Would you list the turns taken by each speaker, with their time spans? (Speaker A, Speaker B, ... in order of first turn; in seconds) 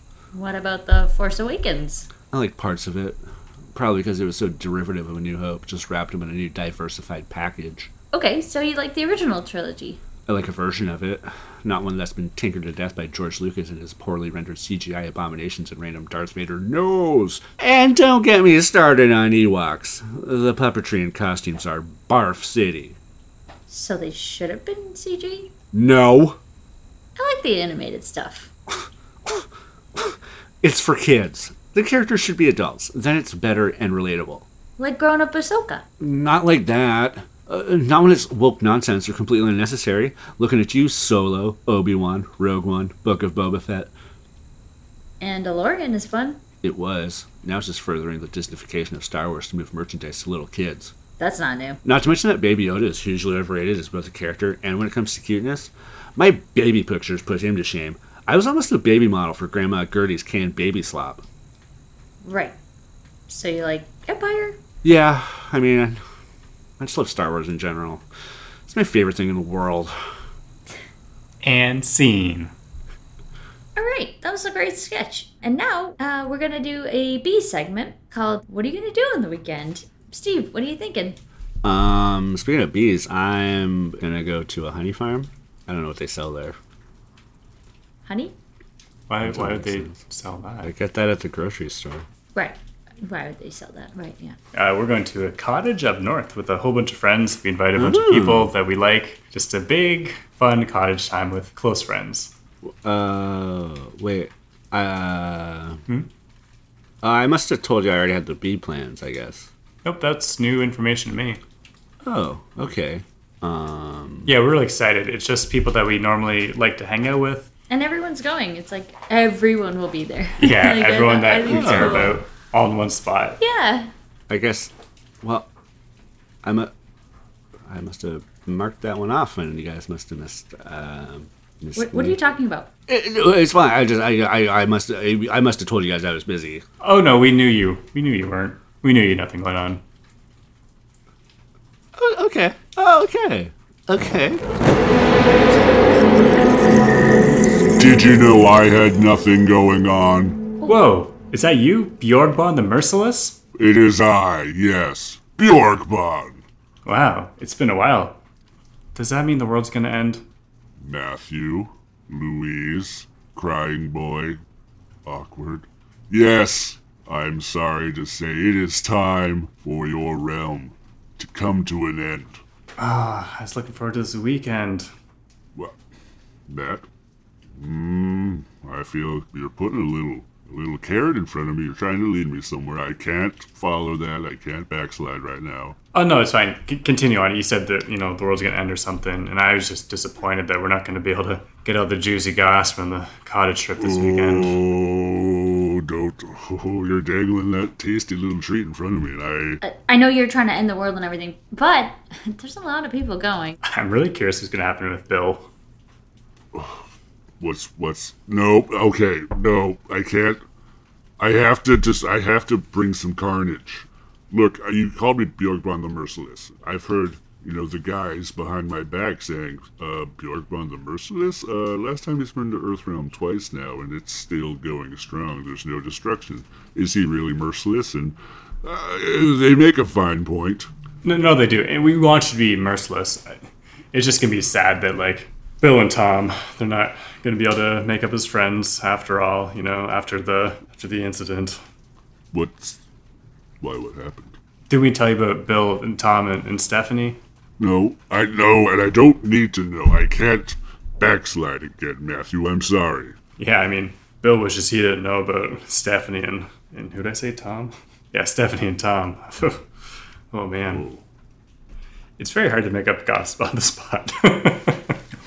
Speaker A: 0.3-2.1, 8.1-10.0, 23.7-25.5, 27.2-28.5, 34.8-35.9, 45.2-46.4, 51.2-51.8, 62.2-62.6, 63.3-64.6, 73.8-81.2, 88.1-88.3, 92.3-94.4, 117.7-122.2, 123.4-123.9, 131.8-132.7, 199.6-203.6
Speaker B: 2.3-3.2, 3.7-7.9, 10.3-23.0, 25.7-26.4, 29.2-34.5, 36.0-43.9, 46.6-51.0, 51.8-61.2, 64.8-66.0, 66.8-68.0, 68.7-69.9, 81.6-86.6, 89.2-90.0, 90.6-92.1, 97.8-98.5, 102.6-105.8, 107.0-109.5, 112.0-114.3, 121.5-122.2, 124.3-125.5, 126.4-126.7, 127.7-132.2, 132.9-136.7, 142.0-144.4
Speaker C: 71.4-72.5, 89.1-90.7, 94.5-102.3, 109.8-111.4, 114.3-117.5, 120.4-123.4, 136.8-139.8, 150.7-153.4, 156.8-158.2, 158.9-160.2, 172.8-174.9, 185.9-194.6, 203.6-205.5, 231.0-233.4, 233.9-241.6, 244.7-247.2, 253.4-259.6, 260.3-260.9, 262.2-265.0
Speaker D: 147.8-150.4, 153.6-156.4, 160.8-164.4, 165.1-172.4, 175.6-175.8, 176.5-176.9, 177.6-185.8, 193.8-199.6, 206.5-206.9, 207.4-210.4, 211.2-230.7, 242.3-242.8, 243.6-244.4, 247.6-253.2, 260.7-261.0